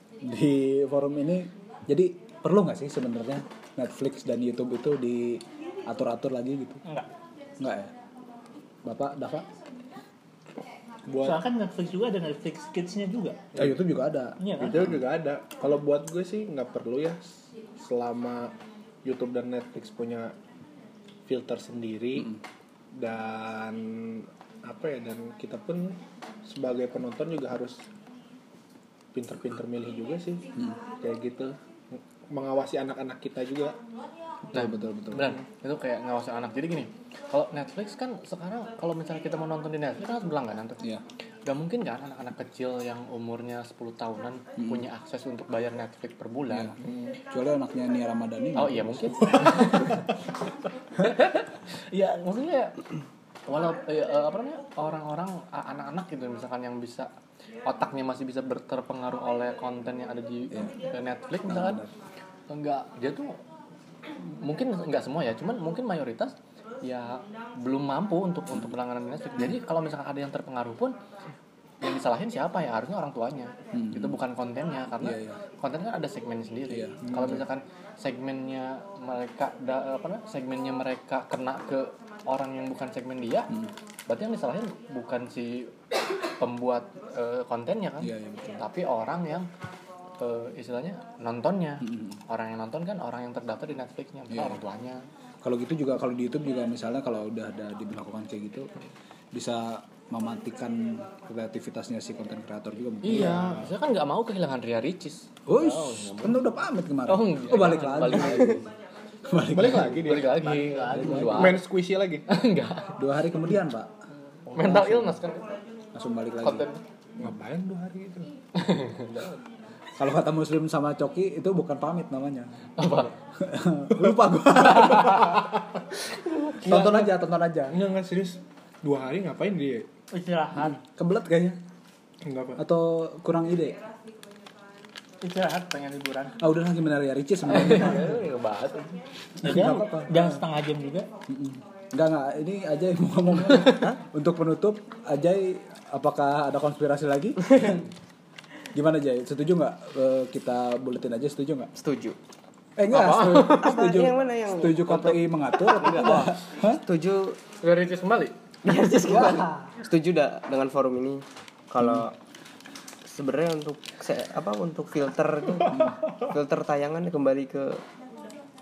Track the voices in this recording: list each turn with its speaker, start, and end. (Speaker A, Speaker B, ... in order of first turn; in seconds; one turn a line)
Speaker A: 0.2-6.8
Speaker A: 7.6-7.9
Speaker A: 8.8-9.5
Speaker B: 11.1-11.4
Speaker C: 11.2-13.4
Speaker B: 13.5-13.8
Speaker A: 13.6-15.0
Speaker C: 14.4-14.8
Speaker B: 14.5-20.4
Speaker B: 21.3-22.4
Speaker B: 22.9-27.8
Speaker B: 29.1-30.4
Speaker B: 31.0-33.8
Speaker A: 34.5-35.4
Speaker D: 34.5-40.9
Speaker D: 41.5-46.8
Speaker A: 44.6-44.9
Speaker B: 46.8-47.2
Speaker A: 47.3-49.8
Speaker D: 48.6-50.1
Speaker D: 51.0-52.8
Speaker D: 53.5-57.1
Speaker D: 57.6-61.8
Speaker A: 60.5-60.8
Speaker A: 61.5-61.9
Speaker D: 62.5-63.4
Speaker D: 64.4-71.0
Speaker D: 71.8-83.5
Speaker A: 73.7-74.2
Speaker A: 75.0-75.4
Speaker A: 76.7-77.4
Speaker B: 77.1-77.4
Speaker D: 84.1-85.8
Speaker D: 86.4-89.5
Speaker A: 88.0-88.6
Speaker D: 90.2-95.0
Speaker A: 91.8-92.2
Speaker A: 94.3-94.6
Speaker A: 95.4-98.7
Speaker A: 99.3-103.6
Speaker D: 103.0-106.5
Speaker B: 103.1-103.7
Speaker A: 105.5-108.7
Speaker D: 107.1-108.6
Speaker A: 109.3-110.2
Speaker B: 109.5-112.2
Speaker D: 109.8-111.7
Speaker A: 110.9-111.6
Speaker D: 112.3-113.0
Speaker A: 113.0-114.0
Speaker D: 114.5-115.6
Speaker A: 114.6-115.2
Speaker A: 115.9-116.7
Speaker D: 116.4-116.8
Speaker B: 117.2-118.3
Speaker D: 118.6-119.2
Speaker A: 120.0-122.7
Speaker D: 122.8-123.1
Speaker A: 123.4-125.5
Speaker D: 124.7-125.3
Speaker B: 126.5-127.2
Speaker A: 126.6-127.8
Speaker B: 127.7-129.9
Speaker C: 130.1-130.8
Speaker A: 130.6-131.6
Speaker B: 132.2-132.6
Speaker A: 132.6-133.8
Speaker C: 135.2-136.4
Speaker A: 136.4-138.3
Speaker D: 137.4-139.0
Speaker A: 139.4-140.3
Speaker C: 139.4-141.1
Speaker B: 139.5-139.8
Speaker A: 141.3-147.8
Speaker E: 143.7-144.0
Speaker E: 147.4-147.8
Speaker A: 148.7-151.7
Speaker E: 151.8-152.2
Speaker A: 152.8-156.8
Speaker D: 152.9-153.8
Speaker E: 153.4-157.4
Speaker D: 155.7-156.3
Speaker D: 157.6-158.3
Speaker E: 158.6-162.1
Speaker A: 159.1-159.5
Speaker A: 161.8-162.1
Speaker E: 163.1-167.8
Speaker A: 165.7-165.9